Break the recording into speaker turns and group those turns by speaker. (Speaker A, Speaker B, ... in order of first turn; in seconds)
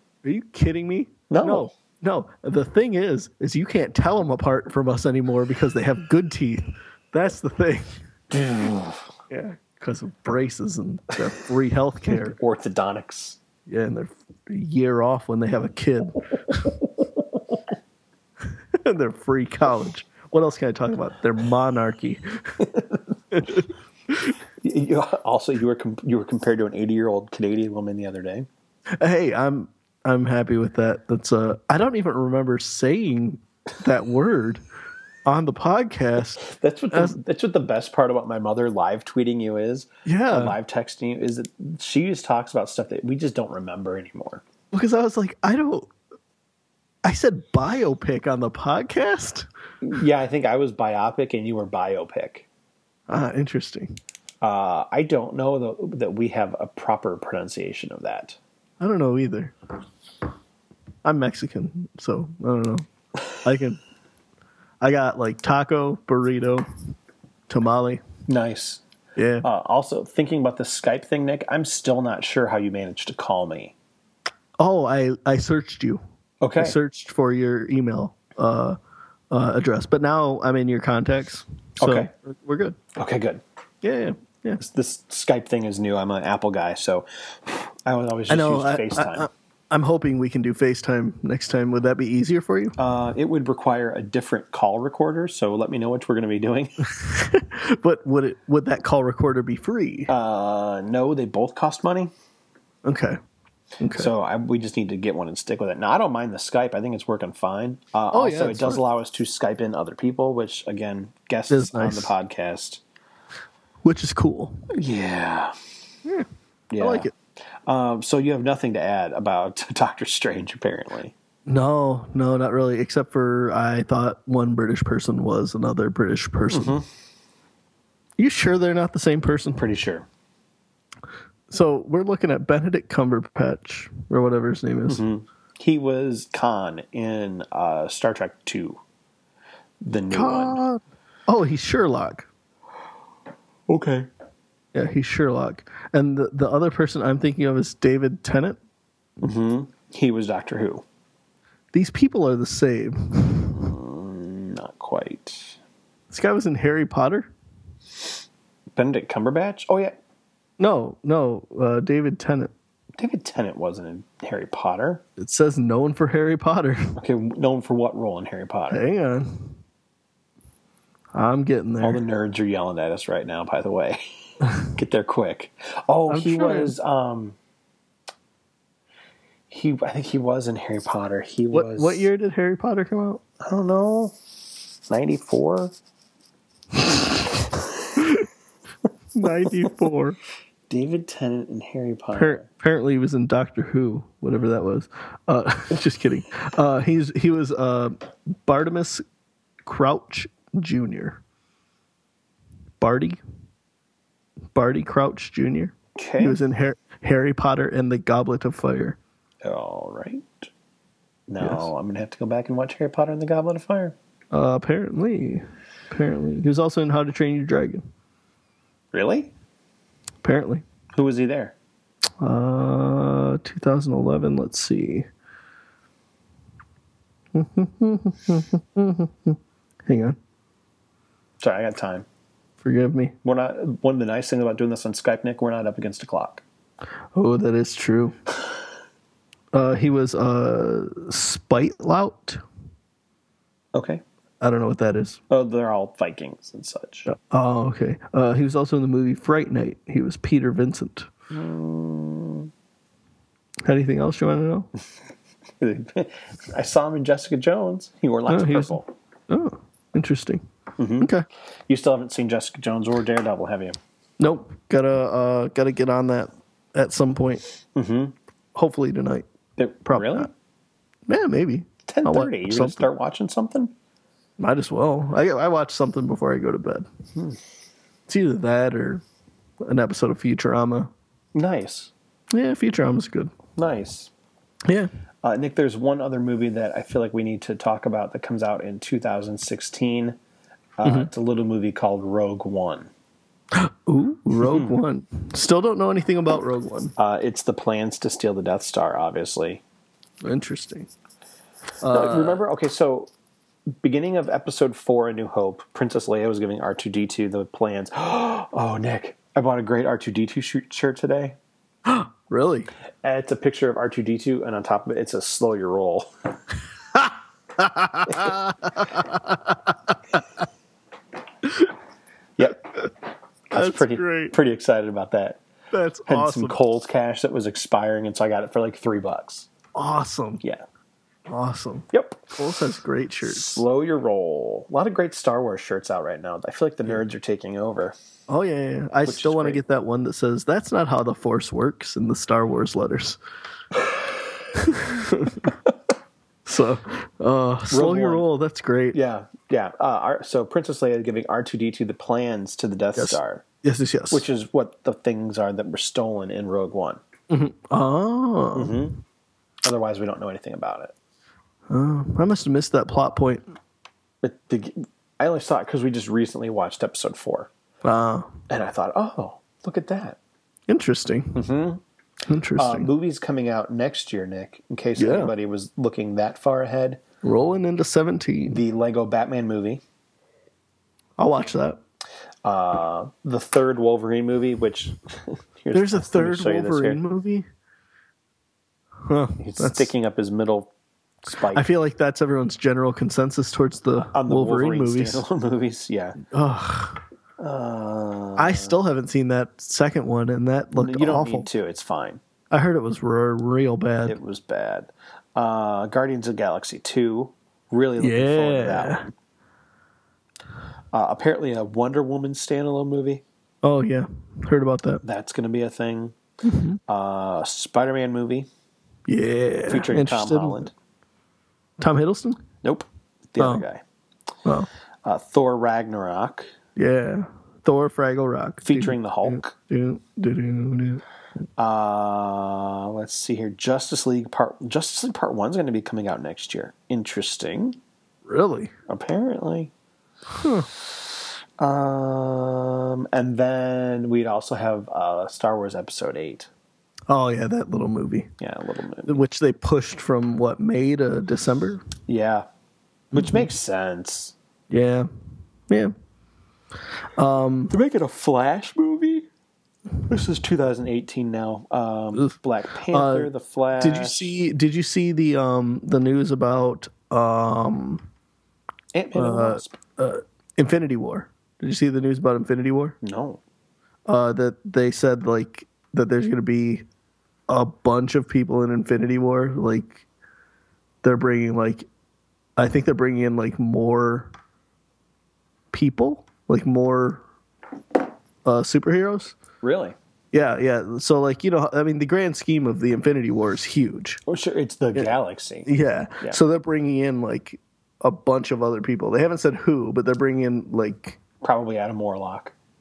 Speaker A: 0.2-8.0, 9.3-12.4, 13.7-16.6, 18.7-22.6, 23.3-24.3, 28.9-34.6, 35.2-37.1, 40.0-40.5, 44.7-45.9, 47.0-49.5, 53.1-54.0, 58.8-59.5, 61.0-62.9, 63.4-63.8, 64.8-66.7, 67.5-68.0, 69.2-69.5, 74.6-76.0, 76.6-78.8, 79.3-82.8, 83.8-84.6, 88.3-92.8, 96.9-100.1, 102.8-103.2, 103.8-104.1, 108.1-108.8, 111.5-112.1, 113.8-114.6, 116.8-117.1, 121.5-126.8, 128.2-129.7, 131.5-135.0, 140.1-142.3, 144.7-148.6, 151.7-153.7, 156.1-157.3, 160.6-162.5, 165.2-166.9, 168.7-169.6, 171.1-172.0, 176.1-176.7, 181.5-183.2, 188.0-188.2, 189.1-190.2, 192.2-199.0, 199.6-201.2, 202.8-203.2, 204.5-209.0, 211.4-211.7, 214.3-217.8, 220.2-220.6, 222.2-225.1, 227.3-230.2, 232.6-233.1, 237.1-238.2, 239.5-242.4, 244.4-245.2, 247.1-251.1, 253.6-254.7, 258.3-258.8, 259.3-260.4, 261.0-261.2, 264.2-267.4, 268.5-269.2, 269.9-270.3, 271.1-272.9, 274.4-276.9, 278.1-279.0, 279.6-280.9, 282.3-283.3, 284.6-284.9, 293.5-296.9, 300.2-300.9, 301.8-302.4, 311.9-312.7, 317.6-319.6, 323.5-324.3, 325.7-326.6, 329.7-330.4, 331.3-333.6, 338.3-343.2, 344.6-345.5, 346.4-349.0, 353.0-354.2, 357.3-358.9, 361.7-363.4, 367.8-368.3, 370.7-371.4, 372.3-372.9, 375.0-375.3, 377.2-378.6, 381.2-381.8, 385.7-387.5, 389.0-389.9, 391.5-395.2, 396.2-397.0, 398.4-401.5, 402.5-404.2, 408.0-409.1, 413.6-415.0, 416.4-416.8, 419.1-420.7, 421.8-422.4, 423.4-423.6, 426.8-431.0, 438.2-438.7, 440.3-440.7, 447.1-448.3, 449.1-451.8, 453.1-453.5, 454.7-455.1, 455.7-455.9, 457.1-457.7, 462.9-468.0, 469.1-472.9, 474.1-476.8, 477.5-480.0, 481.0-481.9, 482.6-484.3, 485.7-487.2, 488.4-489.3, 490.3-494.2, 495.6-501.2
Speaker B: 1.3-1.7, 8.3-9.0, 12.1-13.4, 22.7-23.0, 24.6-28.5, 36.4-44.4, 49.8-52.5, 54.4-58.4, 68.3-68.8, 69.4-73.7, 76.4-76.8, 81.8-82.1, 82.9-83.4, 84.6-89.3, 92.8-96.8, 100.1-102.1, 103.9-112.8, 114.7-115.5, 116.7-117.1, 117.7-121.1, 126.5-126.8, 129.6-130.1, 134.9-138.8, 139.8-140.6, 143.7-144.1, 149.2-150.8, 153.5-155.6, 158.8-160.0, 163.0-165.0, 167.0-168.8, 171.8-177.4, 179.5-182.1, 183.4-184.1, 184.9-185.7, 190.7-192.4, 205.9-206.4, 209.4-210.5, 211.3-213.9, 218.9-219.3, 220.9-221.5, 231.4-232.1, 233.2-236.4, 243.7-244.0, 245.3-247.1, 251.3-252.5, 255.6-258.9, 260.8-261.1, 261.7-263.8, 267.7-268.1, 269.6-270.3, 271.9-273.7, 281.3-281.9, 283.6-284.1, 285.2-290.2, 290.8-292.9, 294.4-294.7, 297.0-299.6, 301.9-303.1, 303.8-311.4, 313.0-316.1, 322.4-322.8, 323.5-325.4, 326.1-329.5, 331.9-332.4, 333.2-337.9, 339.0-339.6, 347.7-348.2, 348.9-353.4, 354.1-357.0, 358.5-359.0, 359.6-360.9, 364.2-367.5, 368.5-370.2, 371.3-371.8, 372.6-377.0, 378.5-379.8, 382.4-387.0, 389.4-390.7, 391.2-391.7, 394.1-396.2, 397.4-398.7, 400.7-402.2, 404.0-409.1, 410.9-413.2, 415.0-416.1, 416.9-418.5, 419.7-420.7, 422.6-423.8, 425.0-426.5, 428.6-429.5, 431.6-437.8, 438.9-439.7, 441.6-446.5, 448.4-449.2, 452.1-452.4, 453.1-454.3, 457.7-459.3, 460.1-464.3, 468.9-469.8, 473.0-473.4, 489.6-489.9, 494.3-496.4, 501.4-502.5